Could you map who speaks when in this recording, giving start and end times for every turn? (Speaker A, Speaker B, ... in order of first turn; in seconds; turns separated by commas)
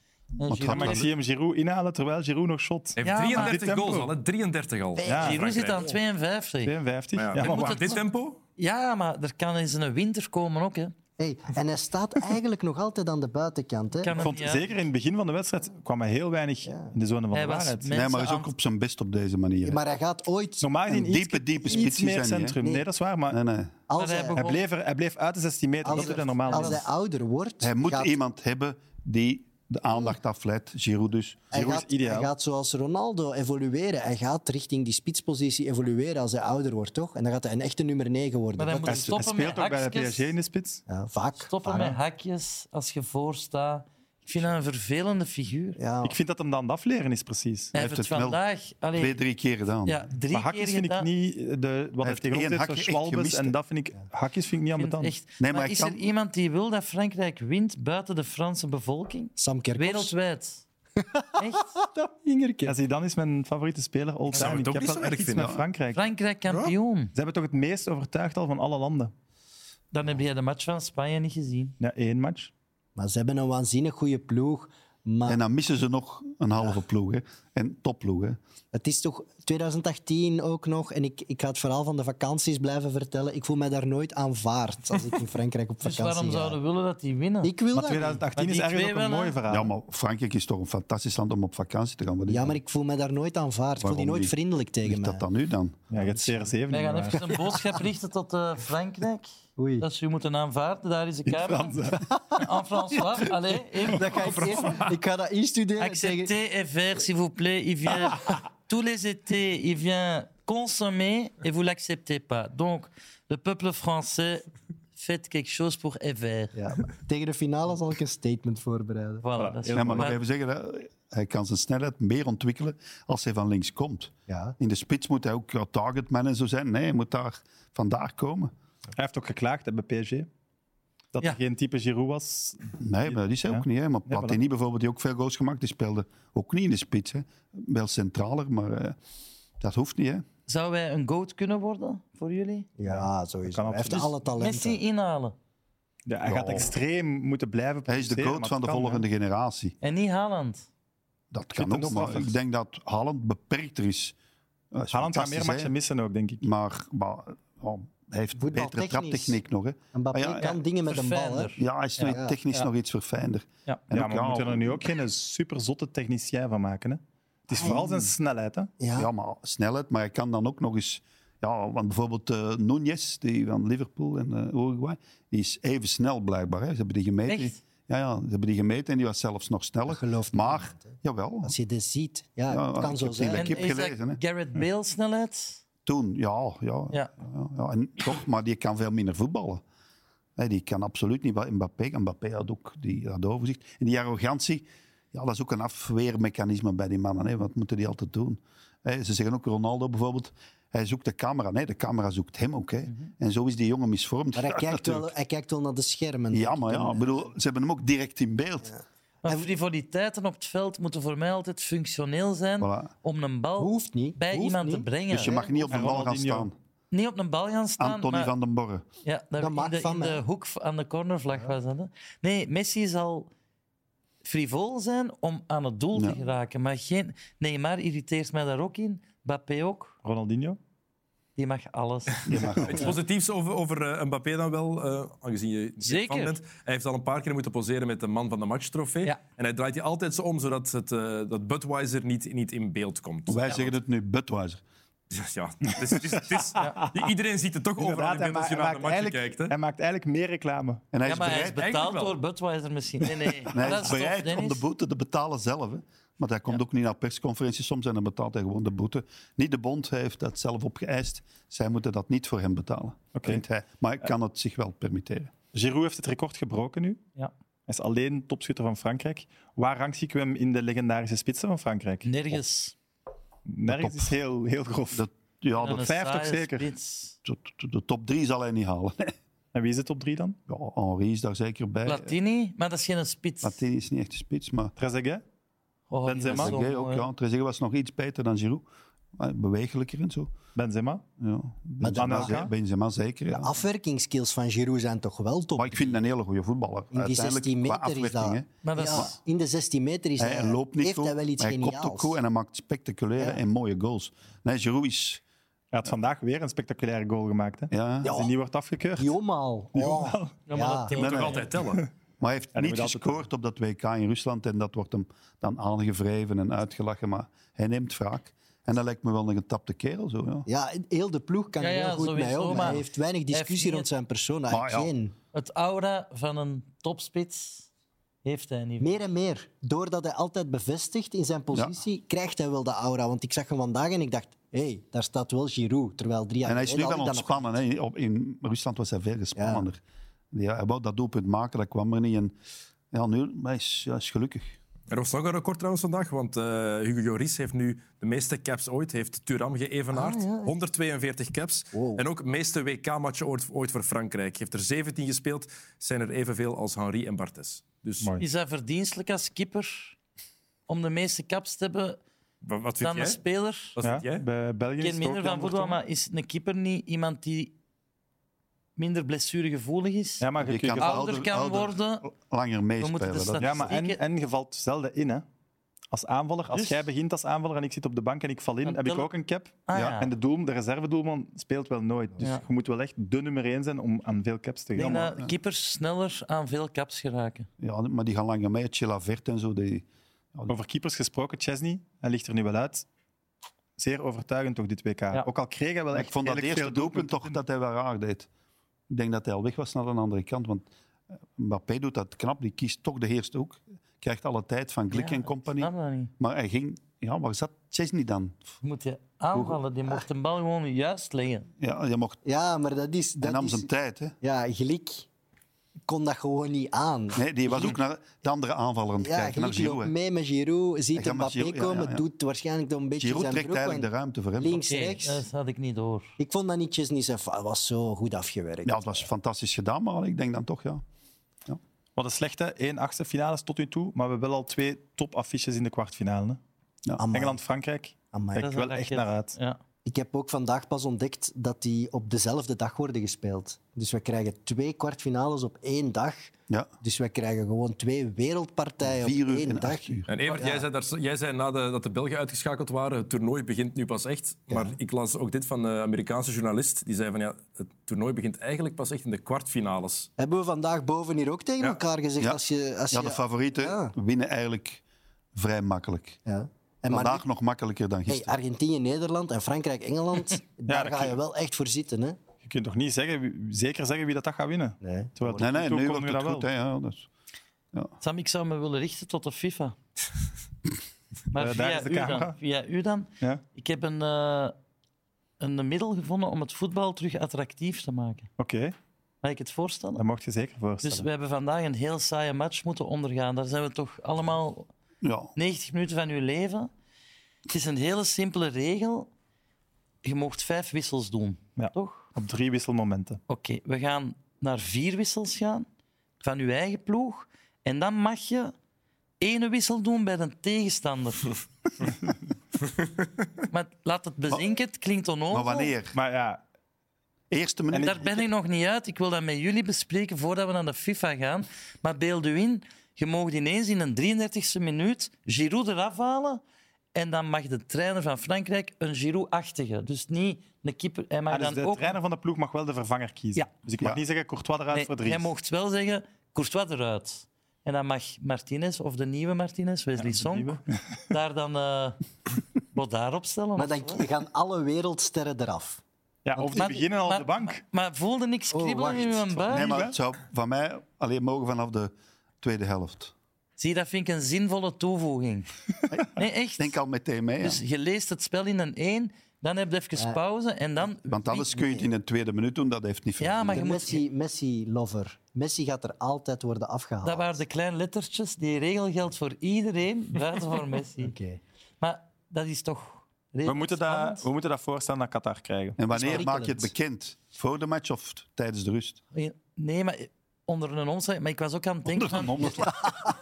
Speaker A: 0.4-1.1, Speaker B: 0.4-1.1, Speaker C: 0.7-4.1, Speaker D: 3.0-5.8, Speaker A: 3.0-3.6, Speaker E: 5.0-6.0, Speaker C: 5.0-5.4, Speaker A: 5.2-6.7, Speaker C: 6.6-8.0, Speaker D: 7.1-8.4, Speaker A: 7.3-8.0, Speaker A: 8.6-10.9, Speaker E: 11.2-14.3, Speaker A: 14.0-14.7, Speaker C: 14.2-17.9, Speaker E: 16.6-16.9, Speaker A: 17.3-18.5, Speaker B: 17.9-19.8, Speaker E: 19.6-20.7, Speaker C: 20.6-23.4, Speaker B: 20.9-22.6, Speaker E: 22.6-22.8, Speaker B: 23.3-23.8, Speaker E: 23.9-24.4, Speaker A: 24.0-24.6, Speaker C: 24.3-26.8, Speaker E: 25.8-28.2, Speaker A: 25.9-26.8, Speaker B: 27.6-31.4, Speaker C: 31.5-32.3, Speaker E: 31.5-39.2, Speaker A: 38.6-40.3, Speaker C: 38.8-40.8, Speaker E: 40.9-42.0, Speaker A: 41.5-45.8, Speaker E: 45.8-46.2, Speaker C: 46.0-47.7, Speaker A: 47.7-49.2, Speaker B: 47.8-48.4, Speaker B: 49.0-50.0, Speaker A: 49.8-51.1, Speaker C: 50.3-55.1, Speaker B: 52.0-53.5, Speaker A: 54.8-60.6, Speaker B: 55.4-56.0, Speaker E: 59.4-60.1, Speaker E: 61.0-62.8, Speaker A: 61.4-61.8, Speaker C: 62.6-66.0, Speaker D: 64.3-65.6, Speaker A: 65.9-67.1, Speaker C: 67.1-69.1, Speaker A: 69.9-71.8, Speaker C: 71.8-72.5, Speaker E: 73.0-75.4, Speaker B: 75.3-78.4, Speaker E: 78.7-86.6, Speaker A: 85.8-87.5, Speaker E: 87.4-88.2, Speaker C: 87.7-89.7, Speaker A: 88.3-89.4, Speaker B: 89.5-92.5, Speaker E: 92.3-95.2, Speaker B: 93.8-95.8, Speaker C: 95.9-97.3, Speaker E: 95.9-96.5, Speaker A: 96.7-99.3, Speaker E: 97.2-97.8, Speaker E: 99.6-99.8, Speaker A: 99.8-104.7, Speaker C: 101.2-102.1, Speaker E: 102.0-102.5, Speaker E: 103.8-106.3, Speaker A: 105.8-116.6, Speaker E: 116.5-119.2, Speaker A: 119.2-120.2, Speaker C: 119.3-120.1, Speaker B: 119.7-128.5, Speaker E: 124.3-124.5, Speaker C: 128.9-130.3, Speaker C: 131.1-134.4, Speaker B: 132.8-139.0, Speaker B: 139.6-140.2, Speaker A: 140.5-142.7, Speaker E: 142.8-144.8, Speaker C: 142.8-144.1, Speaker A: 143.9-145.3, Speaker C: 146.1-149.0, Speaker B: 146.2-146.7, Speaker B: 147.9-149.7, Speaker A: 149.8-150.6, Speaker B: 151.3-154.2, Speaker C: 151.5-152.3, Speaker B: 154.7-155.7, Speaker C: 154.9-156.5, Speaker B: 156.4-160.5, Speaker E: 158.3-159.4, Speaker E: 159.9-162.7, Speaker A: 160.4-162.2, Speaker B: 161.6-164.9, Speaker C: 163.9-168.7, Speaker E: 167.5-168.1, Speaker E: 168.8-169.1, Speaker B: 168.9-181.5, Speaker A: 177.3-177.6, Speaker E: 179.9-183.7, Speaker B: 182.5-184.2, Speaker A: 183.3-185.6, Speaker B: 185.8-189.6, Speaker B: 190.4-205.1, Speaker E: 204.3-207.1, Speaker B: 206.3-208.7, Speaker A: 209.2-215.5, Speaker E: 209.2-209.5, Speaker B: 212.6-212.9, Speaker E: 213.6-215.5, Speaker B: 215.1-216.5, Speaker C: 215.7-216.5, Speaker A: 216.9-218.3, Speaker B: 217.8-218.8, Speaker A: 219.0-223.3, Speaker E: 219.4-220.2, Speaker A: 224.2-229.9, Speaker C: 230.0-230.6, Speaker A: 231.4-232.9, Speaker B: 232.2-232.9, Speaker D: 232.6-243.7, Speaker A: 235.8-236.3, Speaker B: 243.3-244.6, Speaker D: 245.1-249.5, Speaker C: 245.7-247.1, Speaker C: 247.8-250.8, Speaker B: 250.9-251.6, Speaker A: 251.0-254.6, Speaker D: 251.6-252.2, Speaker B: 253.5-265.3, Speaker C: 263.1-263.4, Speaker C: 265.5-267.0, Speaker C: 267.7-272.4, Speaker A: 272.0-272.7, Speaker C: 273.5-275.1, Speaker B: 273.7-274.1, Speaker B: 274.9-275.9, Speaker A: 275.6-277.1, Speaker C: 275.6-276.7, Speaker B: 277.2-279.1, Speaker C: 279.5-280.4, Speaker B: 280.5-282.1, Speaker A: 281.9-283.6, Speaker B: 283.4-284.7, Speaker C: 284.8-285.2, Speaker A: 285.9-287.1, Speaker C: 286.0-286.6, Speaker B: 286.3-288.6, Speaker B: 289.2-290.3, Speaker C: 290.5-291.0, Speaker B: 291.2-293.6, Speaker E: 291.8-292.4, Speaker C: 291.9-292.5, Speaker E: 293.3-296.0, Speaker B: 295.6-299.1, Speaker E: 296.9-302.2, Speaker A: 298.6-299.1, Speaker B: 300.2-305.2, Speaker E: 303.2-303.4, Speaker C: 305.7-309.1, Speaker B: 307.7-308.1, Speaker E: 308.0-308.3, Speaker E: 309.0-311.0, Speaker C: 309.7-310.4, Speaker A: 310.5-311.5, Speaker D: 310.9-311.8, Speaker B: 310.9-311.4, Speaker B: 312.2-320.5, Speaker C: 312.5-313.2, Speaker E: 320.4-325.1, Speaker A: 321.6-323.9, Speaker B: 324.5-324.9, Speaker A: 325.3-327.7, Speaker A: 328.2-328.9, Speaker E: 328.8-337.5, Speaker B: 336.4-339.8, Speaker E: 339.4-339.6, Speaker B: 340.3-342.3, Speaker B: 342.9-344.5, Speaker D: 344.9-358.1, Speaker E: 349.9-350.5, Speaker E: 351.7-352.0, Speaker C: 358.0-358.2, Speaker A: 358.2-359.9, Speaker A: 360.7-362.0, Speaker D: 362.4-363.2, Speaker A: 362.8-363.8, Speaker D: 363.8-364.2, Speaker C: 363.8-365.8, Speaker A: 364.8-367.5, Speaker A: 368.8-370.2, Speaker C: 370.2-371.1, Speaker B: 370.4-373.7, Speaker A: 370.8-372.1, Speaker A: 372.8-374.0, Speaker C: 373.4-375.2, Speaker C: 375.9-385.1, Speaker A: 376.5-376.8, Speaker A: 378.6-379.1, Speaker A: 379.7-380.1, Speaker B: 379.7-380.0, Speaker A: 384.8-387.5, Speaker B: 387.6-390.5, Speaker C: 390.5-392.9, Speaker C: 393.8-397.4, Speaker B: 395.9-398.3, Speaker B: 398.9-400.7, Speaker B: 401.4-408.4, Speaker A: 404.9-406.1, Speaker A: 408.6-411.5, Speaker B: 411.6-412.2, Speaker E: 412.2-413.7, Speaker B: 413.2-414.1, Speaker E: 414.2-415.1, Speaker E: 415.9-417.8, Speaker B: 417.1-419.9, Speaker E: 419.0-425.2, Speaker B: 420.9-422.0, Speaker B: 423.0-424.6, Speaker A: 424.7-426.1, Speaker E: 426.2-429.1, Speaker B: 428.6-430.8, Speaker C: 431.9-436.4, Speaker E: 437.0-437.4, Speaker C: 437.1-439.4, Speaker E: 438.1-438.5, Speaker A: 438.4-439.6, Speaker E: 439.8-450.6, Speaker B: 448.8-450.1, Speaker D: 450.1-460.1, Speaker E: 454.5-454.8, Speaker E: 460.2-463.9, Speaker B: 462.9-464.8, Speaker B: 465.3-466.2, Speaker E: 466.2-467.2, Speaker B: 466.9-468.3, Speaker E: 468.1-472.2, Speaker C: 470.7-471.2, Speaker C: 472.4-476.5, Speaker E: 474.8-475.5, Speaker B: 475.4-477.1, Speaker A: 478.0-479.8, Speaker A: 481.3-484.5, Speaker C: 481.3-482.4, Speaker A: 485.4-488.3, Speaker C: 488.4-488.7, Speaker A: 489.2-490.0, Speaker C: 489.9-491.1, Speaker A: 490.8-494.7, Speaker B: 495.0-495.3, Speaker A: 495.4-496.7, Speaker A: 497.5-499.1, Speaker A: 500.0-502.1, Speaker C: 501.6-503.2, Speaker A: 503.3-505.6, Speaker A: 506.2-508.5, Speaker A: 509.2-511.4, Speaker A: 513.5-515.7, Speaker B: 515.3-515.9, Speaker C: 515.9-516.4, Speaker B: 517.3-518.2, Speaker C: 517.7-518.1, Speaker A: 517.8-526.4, Speaker A: 526.9-532.0, Speaker C: 531.3-535.3, Speaker A: 534.7-542.0, Speaker C: 540.0-541.0, Speaker A: 542.7-544.0, Speaker E: 543.6-545.8, Speaker C: 546.2-547.6, Speaker E: 546.4-546.7, Speaker A: 546.5-549.8, Speaker E: 548.5-549.4, Speaker C: 549.5-549.9, Speaker B: 549.5-553.1, Speaker A: 553.6-555.5, Speaker B: 555.9-557.6, Speaker A: 556.1-556.8, Speaker A: 557.4-561.5, Speaker B: 561.0-563.7, Speaker E: 561.3-561.9, Speaker A: 563.2-564.0, Speaker E: 563.5-567.4, Speaker A: 567.0-571.1, Speaker E: 571.0-571.4, Speaker A: 571.8-574.2, Speaker C: 573.5-575.8, Speaker B: 575.8-579.0, Speaker E: 575.9-576.7, Speaker A: 579.1-582.8, Speaker B: 581.9-583.1